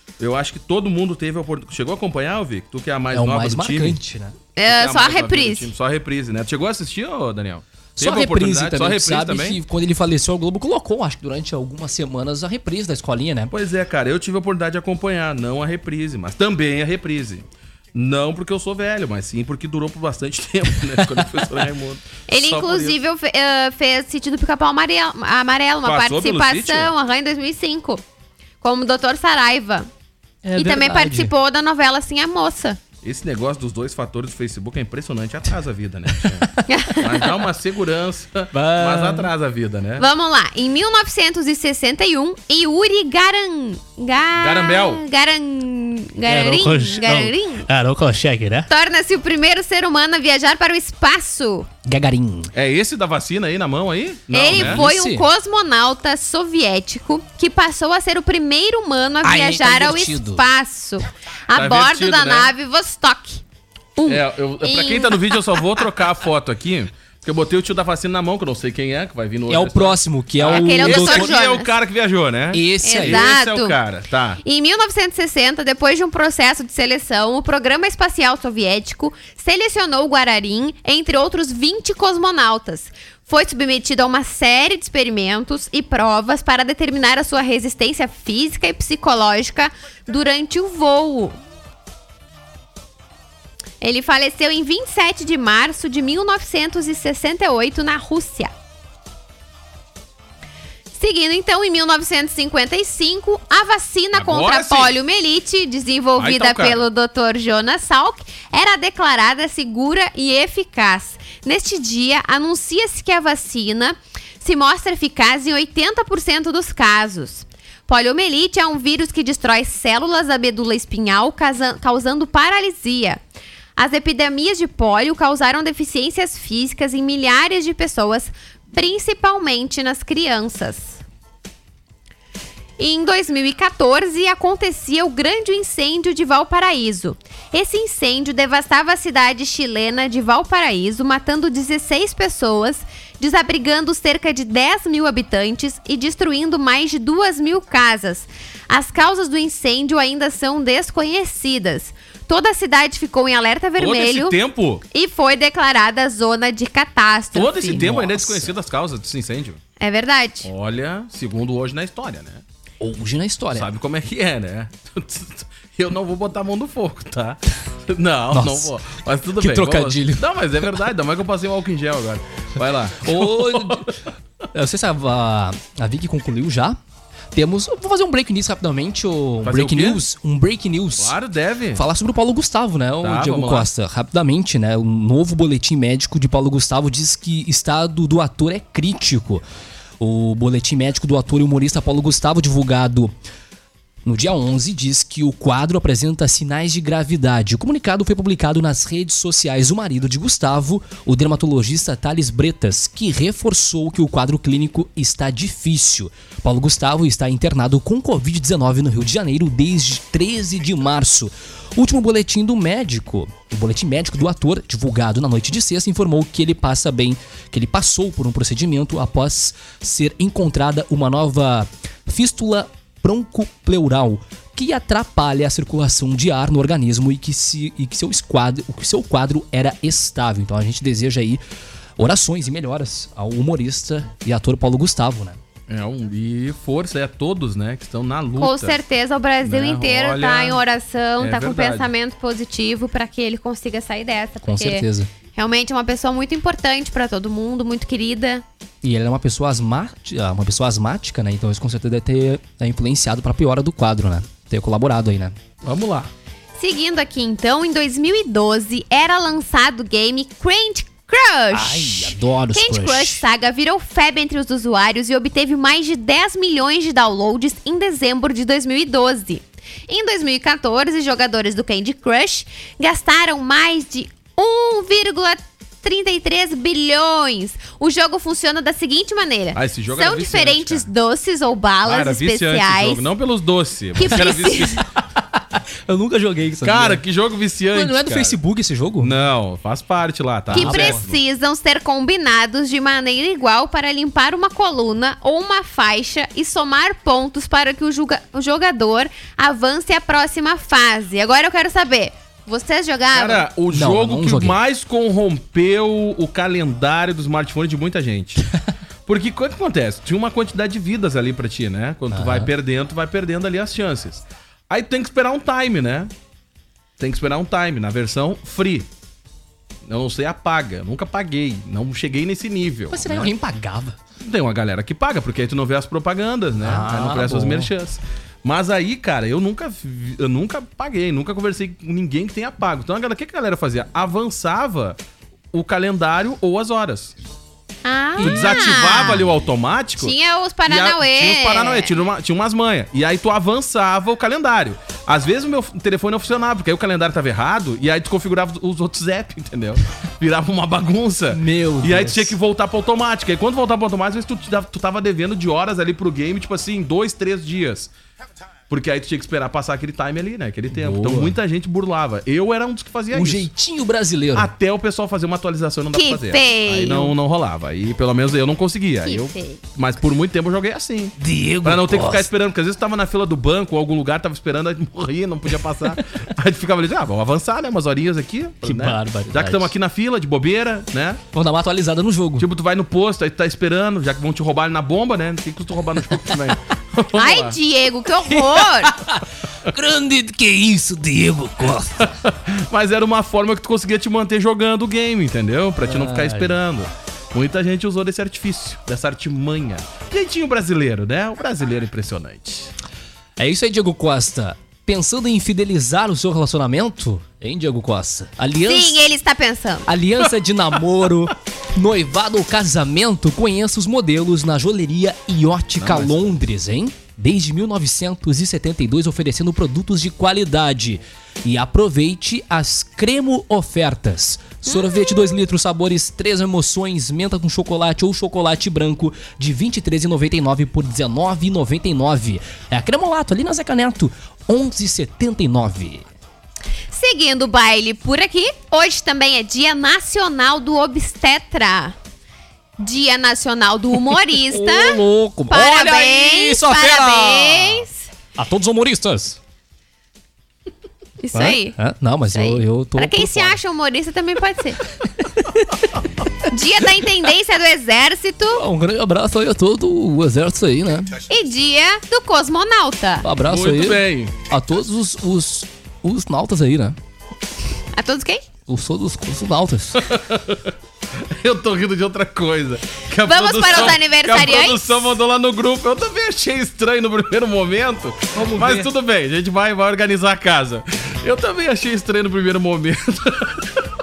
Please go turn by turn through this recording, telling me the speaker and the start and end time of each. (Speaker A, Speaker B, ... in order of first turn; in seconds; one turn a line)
Speaker A: 0.2-4.0
Speaker B: 3.1-4.3
Speaker C: 4.5-5.7
Speaker A: 4.7-9.6
Speaker B: 8.0-13.5
Speaker A: 13.5-23.0
Speaker C: 22.3-28.0
Speaker A: 25.8-26.9
Speaker C: 28.6-29.9
Speaker B: 30.4-31.3
Speaker C: 30.6-32.8
Speaker A: 33.0-40.0
Speaker C: 36.7-37.4
Speaker B: 38.5-39.3
Speaker C: 40.0-47.6
Speaker A: 44.4-45.0
Speaker B: 46.2-48.7
Speaker C: 48.7-51.7
Speaker B: 51.9-52.5
Speaker A: 52.5-54.8
Speaker C: 54.3-63.4
Speaker B: 54.5-55.3
Speaker B: 59.2-60.4
Speaker A: 61.5-62.5
Speaker C: 64.0-65.8
Speaker A: 64.1-74.4
Speaker B: 69.5-71.3
Speaker C: 70.5-71.7
Speaker B: 72.5-73.2
Speaker C: 72.8-73.8
Speaker C: 74.4-91.4
Speaker C: 93.8-98.5
Speaker C: 101.0-123.2
Speaker A: 104.1-104.9
Speaker A: 106.2-106.8
Speaker C: 123.8-131.0
Speaker C: 132.8-154.4
Speaker A: 153.8-154.8
Speaker C: 154.9-157.9
Speaker A: 157.3-159.6
Speaker B: 157.7-158.5
Speaker C: 159.8-160.5
Speaker A: 160.4-162.4
Speaker B: 162.8-163.7
Speaker A: 163.5-173.9
Speaker B: 168.3-168.7
Speaker B: 169.4-170.2
Speaker B: 173.0-173.9
Speaker B: 174.5-176.8
Speaker B: 177.3-181.1
Speaker A: 179.4-180.0
Speaker A: 181.0-181.8
Speaker B: 181.7-189.4
Speaker A: 183.0-183.7
Speaker B: 190.0-193.1
Speaker B: 194.0-231.4
Speaker B: 232.0-235.4
Speaker A: 235.7-238.8
Speaker C: 238.4-248.4
Speaker A: 239.4-240.6
Speaker A: 241.2-241.9
Speaker B: 244.4-245.1
Speaker B: 248.8-255.3
Speaker A: 255.6-256.1
Speaker C: 256.6-283.1
Speaker B: 261.5-263.2
Speaker A: 279.5-280.9
Speaker A: 281.8-284.9
Speaker C: 283.9-284.8
Speaker B: 285.9-287.0
Speaker A: 286.6-288.4
Speaker B: 287.7-289.1
Speaker A: 289.0-291.2
Speaker B: 290.5-291.0
Speaker C: 290.5-303.4
Speaker A: 303.1-308.4
Speaker B: 303.7-304.6
Speaker A: 309.1-316.1
Speaker B: 312.1-312.5
Speaker A: 317.0-318.9
Speaker A: 319.9-323.3
Speaker B: 322.9-323.9
Speaker A: 324.2-335.0
Speaker B: 326.6-327.7
Speaker A: 335.5-337.1
Speaker C: 337.8-339.3
Speaker B: 338.2-338.8
Speaker A: 338.2-340.1
Speaker C: 340.0-341.9
Speaker A: 340.7-357.9
Speaker B: 351.3-352.3
Speaker A: 358.7-363.5
Speaker B: 360.7-361.4
Speaker B: 363.1-364.5
Speaker A: 364.3-381.2
Speaker C: 365.9-367.1
Speaker C: 369.0-369.6
Speaker B: 371.2-372.3
Speaker B: 378.6-379.7
Speaker B: 381.3-382.5
Speaker A: 382.4-387.6
Speaker C: 387.1-388.9
Speaker B: 388.3-392.1
Speaker A: 392.0-402.7
Speaker B: 395.8-396.6
Speaker B: 403.4-409.0
Speaker C: 408.7-409.9
Speaker B: 409.9-436.0
Speaker A: 415.8-416.3
Speaker C: 436.9-441.9
Speaker C: 442.8-445.0
Speaker B: 444.5-449.4
Speaker C: 445.5-448.0
Speaker C: 451.2-451.8
Speaker B: 451.3-453.6
Speaker C: 452.3-454.8
Speaker B: 455.2-455.9
Speaker C: 456.5-458.6
Speaker B: 458.5-461.1
Speaker C: 461.3-463.2
Speaker B: 463.2-467.0
Speaker A: 463.5-464.3
Speaker C: 467.9-468.4
Speaker B: 468.7-470.0
Speaker A: 470.0-470.7
Speaker A: 471.3-483.8
Speaker C: 473.2-475.1
Speaker B: 478.3-478.9